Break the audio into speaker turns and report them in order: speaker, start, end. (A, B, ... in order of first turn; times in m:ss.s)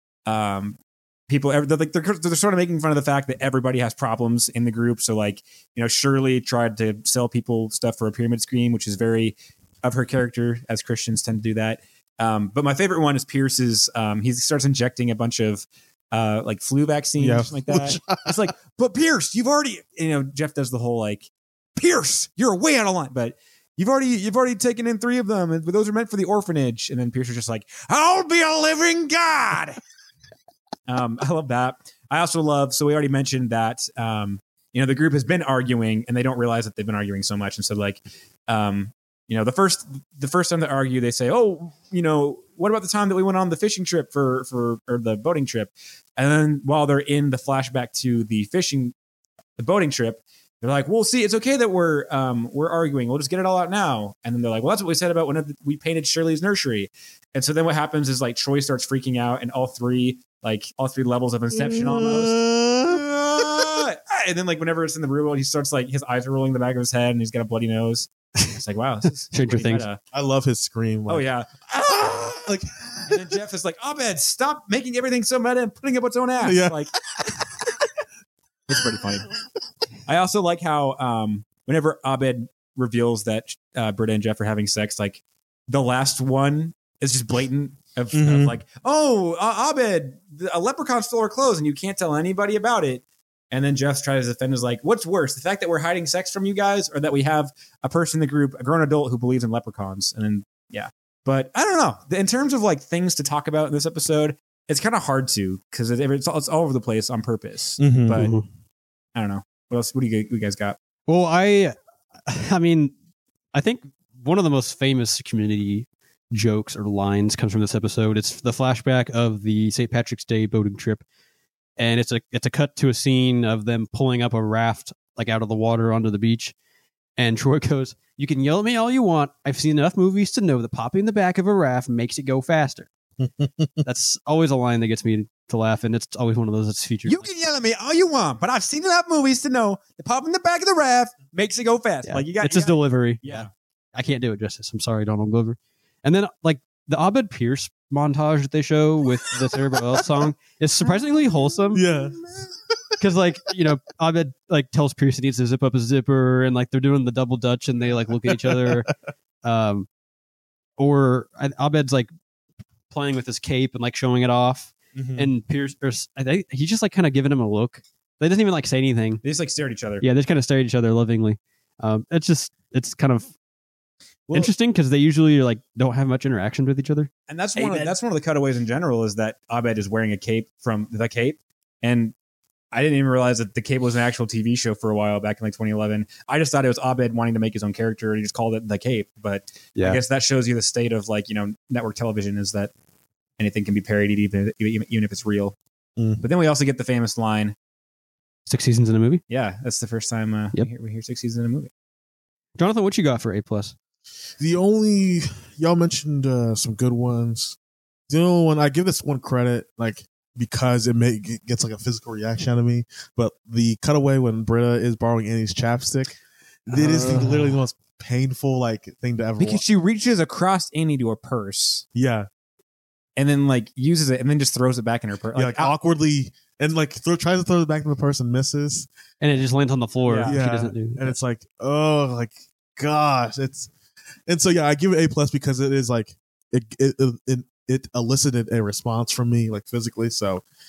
0:00.2-0:29.8 A
0:17.2-0:18.4 B
0:30.9-0:48.9 A
0:49.6-1:02.4 A
1:01.5-1:03.7 B
1:03.3-1:10.0 A
1:09.3-1:09.9 C
1:10.1-1:11.2 B
1:11.1-1:12.5 A
1:11.9-1:13.2 B
1:13.1-1:16.9 A
1:16.4-1:17.8 B
1:18.7-1:19.3 A
1:20.1-1:48.3 A
1:28.1-1:28.5 B
1:47.8-1:48.2 B
1:48.1-1:48.4 C
1:49.1-1:50.8 A
1:51.1-1:51.7 C
1:52.2-1:52.9 C
1:53.5-2:01.0 C
2:01.8-2:06.5 C
2:07.2-2:12.9 C
2:13.2-2:13.8 B
2:13.8-2:17.3 C
2:17.0-2:23.5 A
2:22.0-2:31.9 C
2:29.3-2:30.3 B
2:30.8-2:33.0 B
2:33.0-2:38.9 C
2:38.1-2:38.9 B
2:39.4-2:39.9 C
2:40.8-2:42.1 C
2:42.9-2:49.2 C
2:44.9-2:45.3 B
2:49.2-2:50.0 A
2:50.0-2:53.3 C
2:54.3-2:57.9 C
2:57.3-3:02.1 A
3:02.7-3:12.7 A
3:09.8-3:10.0 C
3:13.4-3:15.6 A
3:16.0-3:16.2 B
3:16.2-3:17.5 A
3:18.5-3:19.2 C
3:19.3-3:21.7 A
3:22.6-3:23.7 C
3:24.4-3:27.6 B
3:28.1-3:39.6 B
3:36.7-3:37.6 C
3:39.4-3:41.8 A
3:41.9-3:42.3 B
3:43.2-3:45.8 A
3:45.4-3:48.9 B
3:49.2-3:51.2 C
3:50.0-3:50.4 A
3:50.2-3:53.7 B
3:54.3-4:00.4 B